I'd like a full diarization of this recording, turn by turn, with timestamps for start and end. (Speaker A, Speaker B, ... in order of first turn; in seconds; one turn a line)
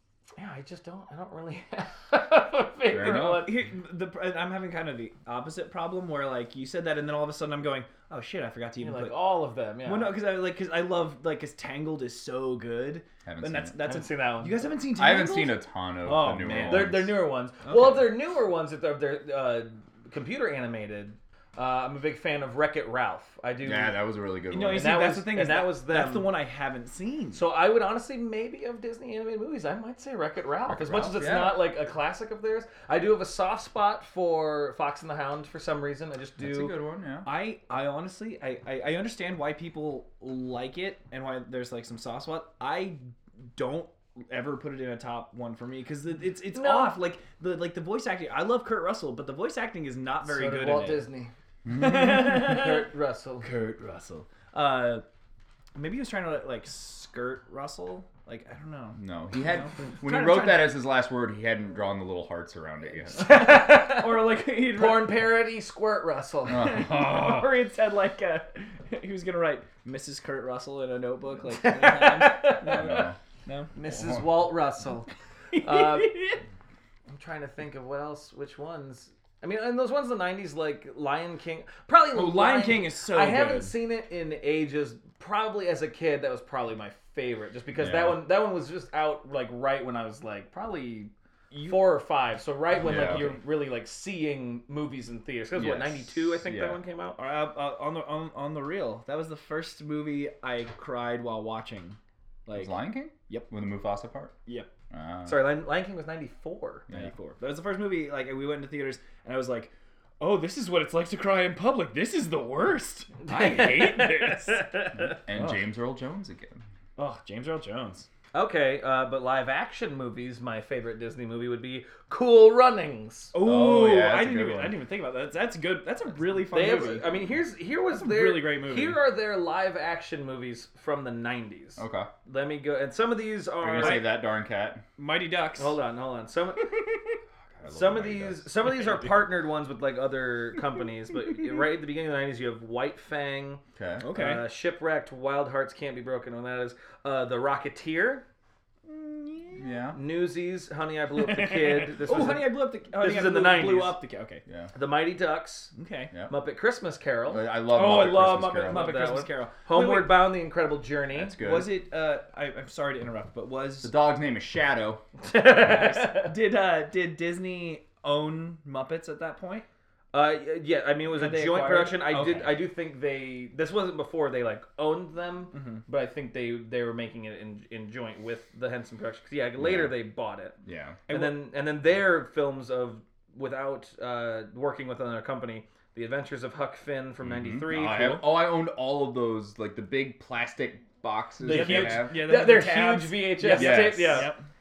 Speaker A: 0.4-3.5
Speaker B: 2.9-3.5
Speaker C: 3.0-9.2
Speaker A: 8.8-10.1
Speaker C: 9.8-17.1
Speaker B: 13.2-13.8
Speaker A: 13.8-14.7
Speaker B: 14.9-17.1
Speaker A: 16.5-24.0
Speaker C: 17.7-18.0
Speaker B: 23.6-25.0
Speaker C: 24.5-27.4
Speaker A: 24.7-26.3
Speaker A: 27.3-36.7
Speaker B: 30.7-31.6
Speaker B: 36.4-37.3
Speaker C: 37.2-51.0
Speaker A: 46.5-46.9
Speaker A: 50.2-53.5
Speaker B: 51.7-52.2
Speaker C: 51.7-52.9
Speaker C: 53.4-55.0
Speaker C: 55.7-60.7
Speaker B: 59.0-63.5
Speaker A: 63.2-66.7
Speaker C: 63.2-65.3
Speaker C: 66.5-73.7
Speaker B: 66.5-67.5
Speaker A: 71.6-73.0
Speaker B: 72.7-73.2
Speaker A: 73.7-76.2
Speaker B: 73.9-74.3
Speaker C: 75.5-76.4
Speaker A: 77.1-91.1
Speaker C: 82.1-83.8
Speaker B: 87.8-88.2
Speaker C: 91.5-91.9
Speaker A: 91.6-97.2
Speaker C: 92.8-93.4
Speaker B: 92.8-93.3
Speaker B: 95.5-96.8
Speaker C: 97.2-103.5
Speaker B: 102.5-104.3
Speaker B: 104.9-105.4
Speaker A: 105.2-106.9
Speaker C: 106.9-114.8
Speaker A: 113.2-115.2
Speaker B: 115.1-116.6
Speaker C: 115.3-115.7
Speaker C: 117.0-118.1
Speaker A: 118.3-123.3
Speaker C: 123.3-127.2
Speaker B: 123.4-124.8
Speaker A: 126.5-134.1
Speaker C: 127.9-129.0
Speaker B: 131.8-132.1
Speaker B: 133.6-134.8
Speaker C: 133.8-134.1
Speaker C: 135.0-135.8
Speaker A: 135.6-136.8
Speaker C: 136.6-137.1
Speaker B: 137.6-138.4
Speaker A: 137.7-143.6
Speaker B: 143.8-144.0
Speaker C: 144.0-144.5
Speaker A: 144.1-148.2
Speaker C: 148.8-149.7
Speaker B: 149.6-150.0
Speaker A: 149.9-154.0
Speaker C: 151.2-154.4
Speaker B: 154.4-154.7
Speaker A: 154.7-155.7
Speaker C: 155.7-156.1
Speaker A: 156.3-157.4
Speaker B: 157.3-158.9
Speaker C: 157.7-160.3
Speaker A: 158.6-161.3
Speaker B: 161.1-161.7
Speaker C: 161.4-163.9
Speaker B: 163.8-165.0
Speaker A: 165.2-166.3
Speaker C: 165.5-169.7
Speaker A: 170.1-180.6
Speaker C: 171.1-172.6
Speaker C: 175.5-175.8
Speaker B: 179.6-179.9
Speaker B: 180.6-181.0
Speaker C: 181.1-181.4
Speaker A: 181.1-188.2
Speaker B: 187.2-192.2
Speaker C: 191.4-194.4
Speaker A: 191.4-194.3
Speaker B: 193.5-194.3